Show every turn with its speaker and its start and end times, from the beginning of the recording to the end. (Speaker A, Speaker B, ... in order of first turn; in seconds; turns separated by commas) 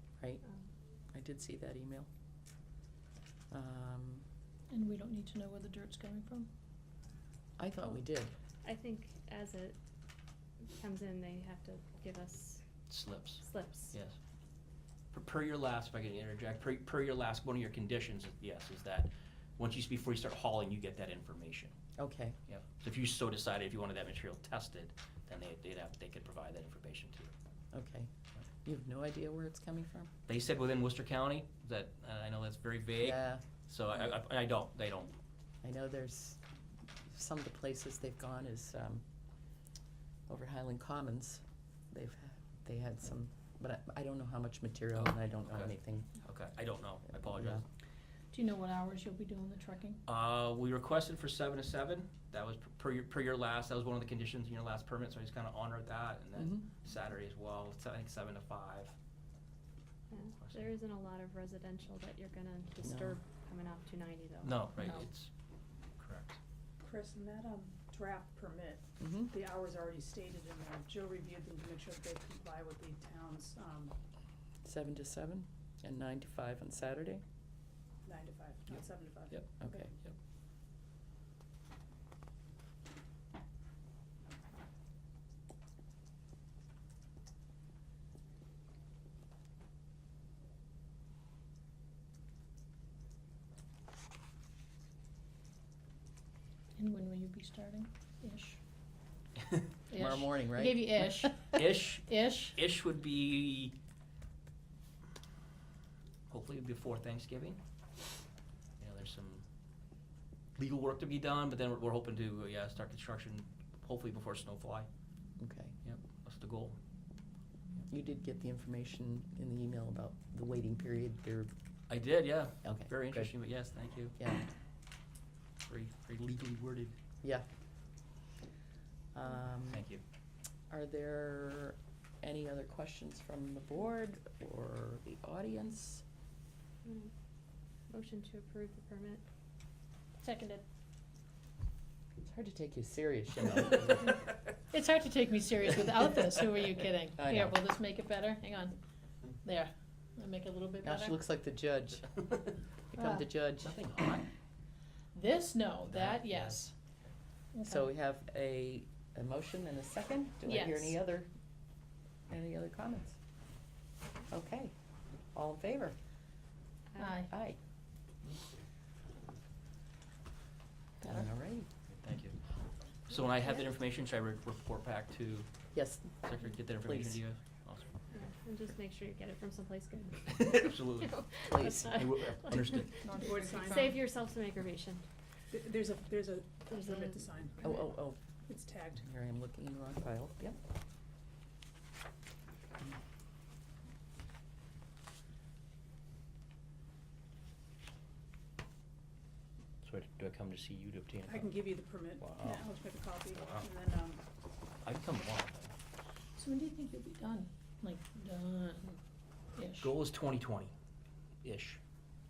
Speaker A: 1.1-2.1, Speaker A: 3.5-4.2, Speaker B: 4.7-6.5, Speaker A: 7.6-8.3, Speaker C: 8.6-9.8, Speaker C: 10.8-12.6, Speaker D: 12.9-14.2, Speaker C: 13.4-13.9, Speaker D: 15.1-21.7, Speaker A: 22.0-22.4, Speaker D: 22.5-27.3, Speaker A: 27.7-28.1, Speaker A: 28.6-30.1, Speaker D: 30.3-35.1, Speaker A: 33.0-33.4, Speaker A: 35.6-36.4, Speaker A: 37.0-39.0, Speaker A: 40.3-46.1, Speaker D: 44.9-45.7, Speaker D: 46.2-47.6, Speaker A: 47.2-47.6, Speaker B: 48.3-50.0, Speaker D: 50.1-58.9, Speaker A: 56.4-56.7, Speaker C: 60.1-65.0, Speaker D: 60.4-60.7, Speaker A: 62.8-63.2, Speaker D: 64.4-65.3, Speaker D: 66.0-66.3, Speaker E: 66.8-73.9, Speaker A: 69.0-69.3, Speaker A: 74.6-77.2, Speaker E: 78.0-79.9, Speaker D: 79.3-80.1, Speaker A: 79.6-79.9, Speaker B: 96.8-98.6, Speaker B: 99.9-102.5, Speaker A: 99.9-101.3, Speaker D: 101.5-103.7, Speaker D: 106.3-107.6, Speaker D: 108.8-109.4, Speaker D: 110.5-114.9, Speaker A: 115.4-115.8, Speaker D: 115.8-116.8, Speaker A: 117.9-121.5, Speaker D: 121.9-124.2, Speaker A: 122.6-123.3, Speaker A: 124.2-124.4, Speaker D: 125.7-127.0, Speaker A: 129.1-129.8, Speaker D: 129.7-130.0, Speaker A: 130.7-136.0, Speaker C: 136.8-137.1, Speaker C: 137.9-139.2, Speaker B: 140.2-140.6, Speaker A: 142.2-144.2, Speaker B: 144.7-148.8, Speaker A: 147.2-147.6, Speaker B: 149.4-151.2, Speaker A: 150.8-152.3, Speaker A: 152.9-153.8, Speaker B: 152.9-153.2, Speaker D: 153.6-154.3, Speaker B: 155.1-156.7, Speaker D: 155.9-156.6, Speaker B: 157.5-157.8, Speaker A: 157.6-161.3, Speaker B: 160.4-160.9, Speaker A: 162.3-163.1, Speaker A: 164.3-164.7, Speaker A: 165.3-165.9, Speaker C: 166.9-167.2, Speaker B: 167.0-167.3, Speaker A: 167.3-167.6, Speaker A: 171.0-171.7, Speaker D: 171.9-172.4, Speaker D: 173.1-175.5, Speaker A: 175.7-176.2, Speaker D: 176.2-177.9, Speaker A: 176.8-177.2, Speaker C: 178.1-185.0, Speaker D: 180.3-181.2, Speaker A: 181.5-182.0, Speaker D: 181.8-183.0, Speaker B: 183.1-183.9, Speaker E: 183.1-184.0, Speaker E: 185.5-187.9, Speaker C: 186.8-187.1, Speaker A: 187.6-188.2, Speaker E: 188.4-189.1, Speaker A: 189.0-190.6, Speaker D: 199.8-202.7, Speaker E: 201.2-204.2, Speaker D: 203.3-203.7, Speaker D: 204.8-205.7, Speaker B: 206.4-209.0, Speaker B: 209.6-209.9, Speaker D: 209.8-210.7, Speaker D: 211.4-211.8